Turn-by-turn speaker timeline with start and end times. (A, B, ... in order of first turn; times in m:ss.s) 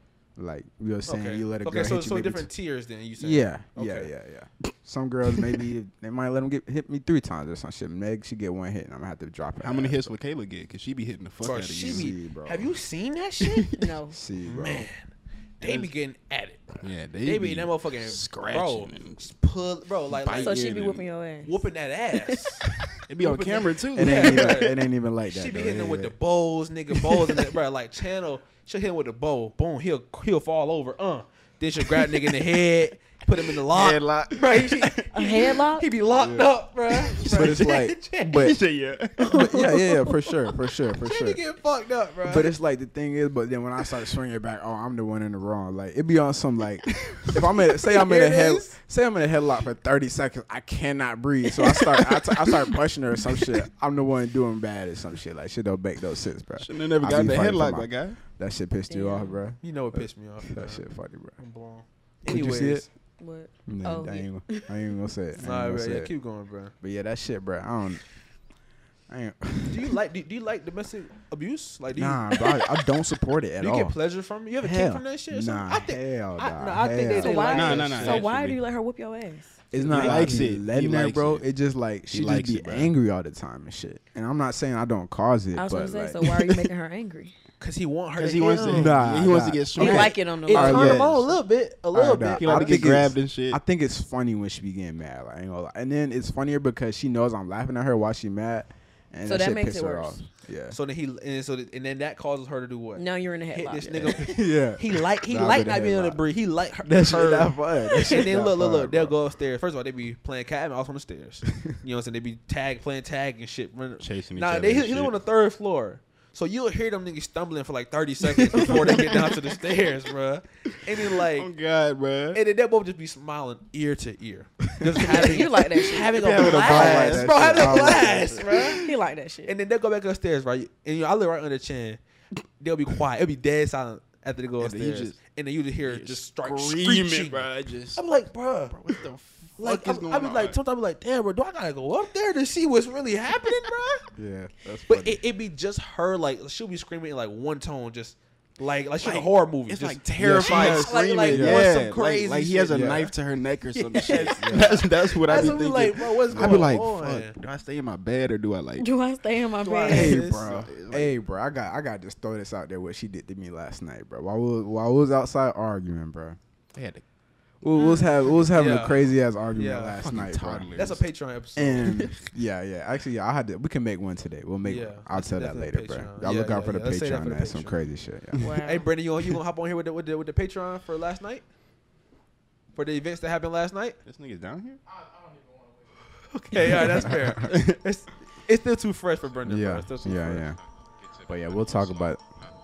0:00.4-0:02.5 A
0:01.0-0:04.1 B
0:03.2-0:10.2 A
0:09.6-0:12.1 C
0:11.4-0:13.7 B
0:11.7-0:12.7 A
0:13.8-0:14.2 D
0:14.1-0:14.9 A
0:14.4-0:20.7 B
0:16.8-0:19.3 C
0:20.2-0:20.4 A
0:20.3-0:21.7 D
0:20.4-0:21.1 C
0:21.4-0:38.4 B
0:22.9-0:24.6 C
0:23.9-0:26.2 A
0:33.6-0:35.1 C
0:35.1-0:35.9 D
0:36.2-0:36.5 A
0:36.9-0:39.4 C
0:37.3-0:38.6 A
0:39.2-0:39.7 B
0:39.2-0:41.4 A
0:41.0-0:42.5 B
0:42.2-1:01.4 A
0:46.9-0:47.4 C
0:47.9-0:48.8 B
0:51.8-0:52.4 C
0:56.6-0:58.2 C
0:58.9-0:59.4 D
0:59.6-1:00.8 B
1:01.4-1:02.9 B
1:02.3-1:02.8 A
1:03.2-1:04.7 D
1:03.7-1:06.1 A
1:05.4-1:06.7 B
1:06.8-1:08.0 A
1:09.1-1:09.9 A
1:09.7-1:12.6 B
1:12.0-1:14.0 A
1:13.6-1:18.3 B
1:14.6-1:17.4 A
1:17.1-1:19.6 D
1:17.4-1:18.6 C
1:19.7-1:26.2 A
1:19.7-1:20.4 B
1:19.9-1:21.5 C
1:22.1-1:22.9 C
1:25.6-1:27.3 D
1:26.2-1:26.7 C
1:27.6-1:29.0 B
1:28.2-1:30.2 C
1:28.6-1:31.4 A
1:29.8-1:31.0 D
1:29.8-1:33.0 B
1:30.7-1:31.2 C
1:31.9-1:40.8 A
1:32.3-1:33.6 C
1:39.2-1:40.2 D
1:40.7-2:01.5 B
1:43.0-1:44.2 D
1:44.2-1:46.2 A
1:46.8-1:49.2 A
1:54.0-1:55.2 C
1:58.4-1:59.2 C
2:01.2-2:02.4 C
2:02.3-2:08.8 B
2:05.0-2:06.5 D
2:06.2-2:08.9 C
2:06.4-2:08.6 A
2:08.7-2:09.6 D
2:09.5-2:12.0 B
2:12.6-2:18.8 B
2:14.6-2:15.2 C
2:15.9-2:18.0 C
2:18.7-2:20.6 C
2:19.6-2:24.0 B
2:24.2-2:25.2 A
2:24.9-2:33.0 B
2:29.0-2:38.9 C
2:30.2-2:31.6 A
2:32.7-2:33.1 A
2:33.8-2:37.4 B
2:34.3-2:34.7 A
2:35.3-2:35.6 A
2:36.3-2:36.7 A
2:38.8-2:40.2 D
2:39.6-2:40.5 B
2:39.9-2:46.4 A
2:40.0-2:41.2 C
2:46.7-2:47.0 C
2:47.6-2:50.7 A
2:48.5-2:50.0 B
2:50.0-2:51.0 C
2:50.8-2:51.9 B
2:51.6-2:58.5 A
2:51.8-2:52.2 C
2:54.6-2:57.8 B
2:58.4-2:58.9 D
2:58.6-3:01.5 B
3:02.8-3:04.0 B
3:04.0-3:04.8 C
3:06.3-3:10.5 B
3:06.7-3:07.4 A
3:09.4-3:10.6 A
3:11.3-3:12.2 A